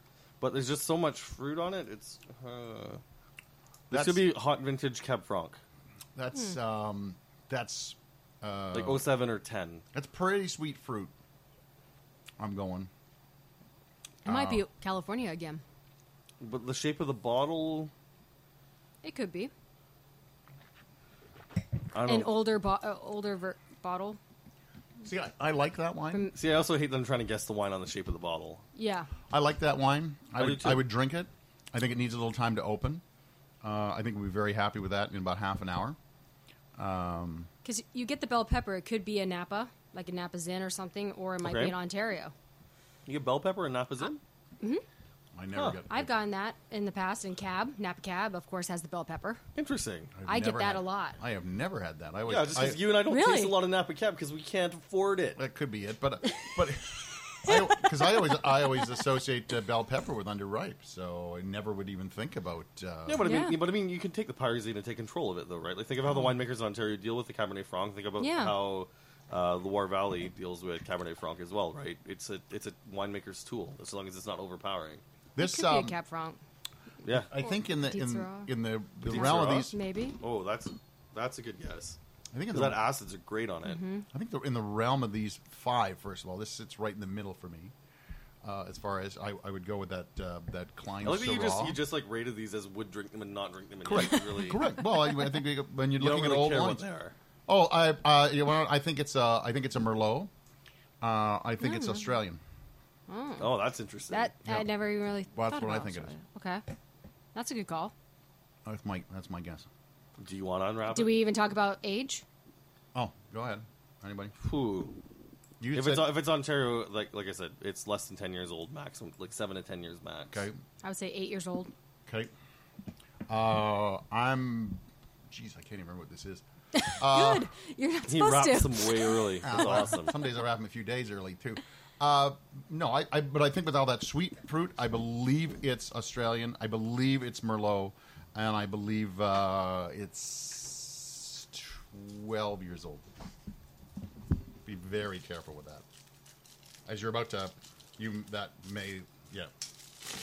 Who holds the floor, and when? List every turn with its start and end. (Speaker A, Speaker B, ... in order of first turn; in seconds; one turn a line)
Speaker A: 0.4-3.0
Speaker B: 3.9-4.2
Speaker A: 3.9-5.6
Speaker B: 6.2-9.1
Speaker A: 8.7-9.8
Speaker B: 9.9-11.1
Speaker B: 12.4-12.9
Speaker B: 14.2-14.7
Speaker C: 14.3-15.6
Speaker A: 16.4-17.9
Speaker C: 19.0-19.5
Speaker A: 21.9-22.4
Speaker C: 22.1-24.2
Speaker B: 25.0-26.3
Speaker A: 26.3-28.6
Speaker C: 28.8-29.1
Speaker B: 29.3-33.0
Speaker A: 30.4-30.9
Speaker B: 33.6-36.0
Speaker B: 36.8-37.5
Speaker C: 37.6-42.3
Speaker A: 41.4-41.8
Speaker A: 43.1-44.2
Speaker B: 45.4-46.1
Speaker A: 45.5-45.8
Speaker C: 45.9-49.4
Speaker A: 49.5-50.1
Speaker B: 50.1-52.9
Speaker C: 50.3-51.2
Speaker A: 52.3-55.4
Speaker C: 53.1-53.6
Speaker B: 55.4-63.2
Speaker A: 63.1-75.0
Speaker C: 63.2-63.6
Speaker C: 68.2-68.6
Speaker B: 75.4-76.0
Speaker C: 75.4-76.4
Speaker A: 77.0-77.3
Speaker B: 77.3-79.8
Speaker C: 77.3-78.5
Speaker A: 79.0-82.0
Speaker C: 79.1-80.2
Speaker B: 82.3-82.8
Speaker A: 82.5-83.8
Speaker C: 83.7-84.1
Speaker B: 84.1-87.7
Speaker B: 88.4-91.8
Speaker A: 91.0-94.8
Speaker B: 93.8-96.8
Speaker A: 96.0-97.1
Speaker B: 97.5-100.3
Speaker B: 101.0-102.4
Speaker C: 101.6-102.0
Speaker C: 103.1-103.5
Speaker A: 103.4-104.3
Speaker C: 104.1-106.6
Speaker B: 104.5-104.7
Speaker B: 105.3-106.1
Speaker C: 107.3-107.9
Speaker B: 108.7-109.7
Speaker A: 110.2-111.2
Speaker C: 110.9-112.2
Speaker B: 112.9-114.3
Speaker A: 114.4-115.0
Speaker B: 115.6-116.1
Speaker A: 115.7-120.5
Speaker B: 120.3-120.6
Speaker C: 120.8-121.7
Speaker B: 123.3-126.4
Speaker C: 126.7-129.4
Speaker B: 127.0-127.5
Speaker A: 128.1-130.1
Speaker B: 129.4-143.0
Speaker B: 144.7-145.8
Speaker B: 146.9-149.5